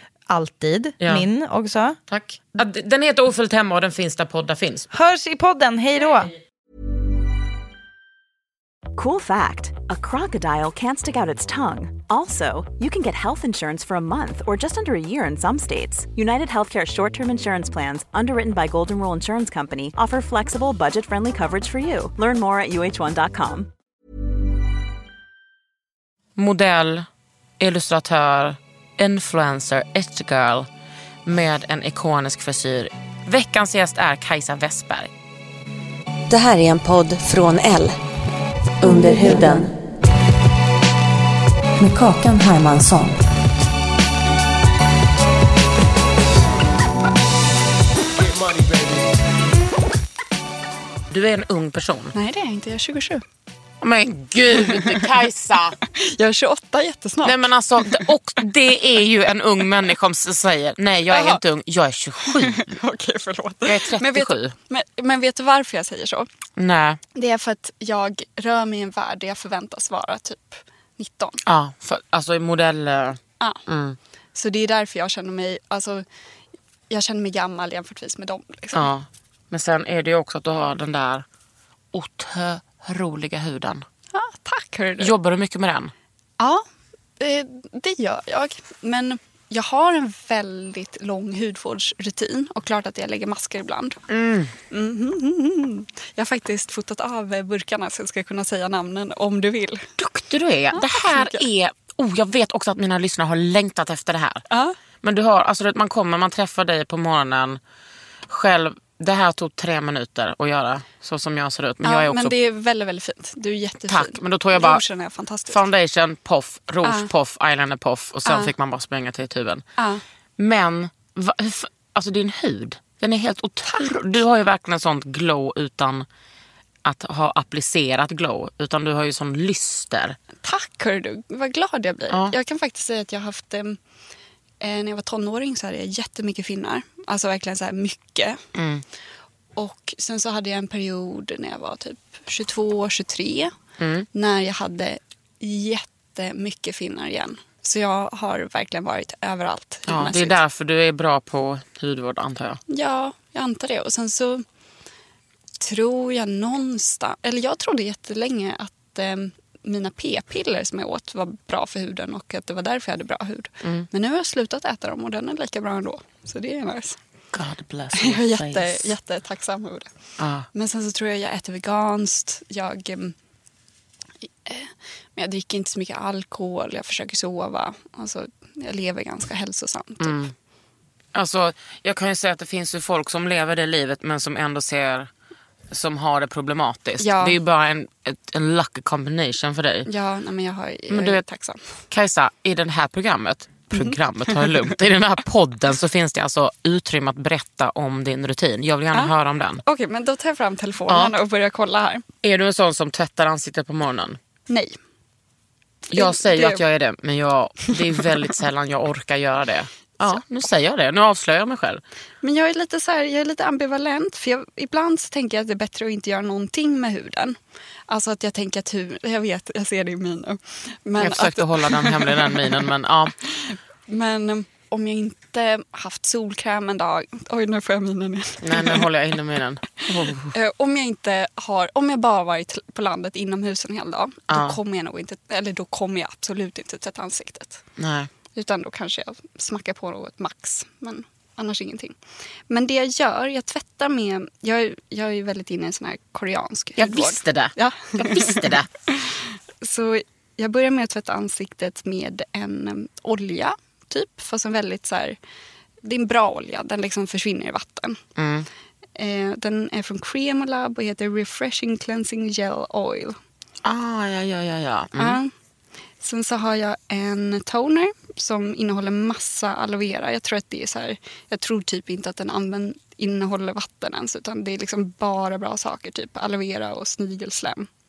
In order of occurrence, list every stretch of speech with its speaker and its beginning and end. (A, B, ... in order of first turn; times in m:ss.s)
0:00.3-0:02.0 A
0:01.0-0:01.2 B
0:02.1-0:04.9 B
0:04.9-0:06.3 A
0:08.9-0:23.7 C
0:26.4-0:27.1 B
0:27.6-0:30.7 B
0:31.2-0:35.1 B
0:36.3-0:38.0 D
0:38.8-0:39.7 D
0:41.8-0:43.2 D
0:51.1-0:52.1 B
0:52.1-0:53.2 E
0:53.8-0:55.8 B
0:54.6-0:55.1 E
0:55.9-0:58.1 E
0:57.2-1:02.7 B
1:01.1-1:01.4 E
1:02.2-1:06.3 E
1:03.6-1:04.5 B
1:06.6-1:07.0 B
1:07.1-1:11.4 E
1:11.4-1:14.0 B
1:14.3-1:16.0 E
1:16.9-1:18.9 E
1:18.7-1:21.2 B
1:21.9-1:23.8 B
1:24.1-1:25.1 E
1:25.0-1:25.9 B
1:26.4-1:26.6 E
1:27.2-1:34.0 E
1:34.1-1:34.5 B
1:34.7-1:39.9 E
1:40.0-1:44.4 B
1:40.7-1:41.4 E
1:44.5-1:44.8 E
1:45.0-1:47.6 B
1:48.3-1:52.3 B
1:51.8-1:55.6 E
1:53.9-1:54.8 B
1:55.5-1:59.6 B
1:56.8-1:57.1 E
1:58.2-1:58.5 E
1:59.8-2:00.0 E
2:00.4-2:06.0 B
2:03.7-2:04.0 E
2:06.8-2:10.2 B
2:10.4-2:13.8 E
2:14.6-2:18.4 E
2:18.5-2:18.8 B
2:19.5-2:23.5 E
2:23.8-2:24.1 B
2:24.1-2:30.4 E
2:29.9-2:32.6 B
2:32.7-2:34.4 E
2:35.6-2:47.0 E
2:47.3-2:48.9 B
2:47.9-2:49.9 E
2:50.2-2:50.5 B
2:50.5-2:53.1 E
2:54.4-3:00.2 E
3:00.0-3:00.3 B
3:01.1-3:05.1 B
3:05.7-3:09.9 B
3:07.0-3:07.4 E
3:09.8-3:11.8 E
3:10.9-3:11.2 B
3:11.9-3:19.6 B
3:13.7-3:14.7 E
3:18.9-3:22.0 E
3:20.9-3:21.2 B
3:22.2-3:24.2 B
3:24.5-3:24.8 E
3:25.9-3:31.8 B
3:25.9-3:26.6 E
3:32.2-3:37.4 E
3:37.9-3:42.7 E
3:41.0-3:43.1 B
3:43.2-3:48.9 E
3:48.4-3:50.3 B
3:49.8-3:57.6 E
3:54.3-3:54.6 B
3:57.8-3:58.1 B
3:58.3-4:02.0 E
4:02.5-4:15.2 E
4:06.8-4:08.7 B
4:15.8-4:18.0 E
4:18.2-4:18.5 B
4:19.0-4:23.2 E
4:23.6-4:25.2 B
4:25.0-4:25.3 E
4:26.0-4:37.7 E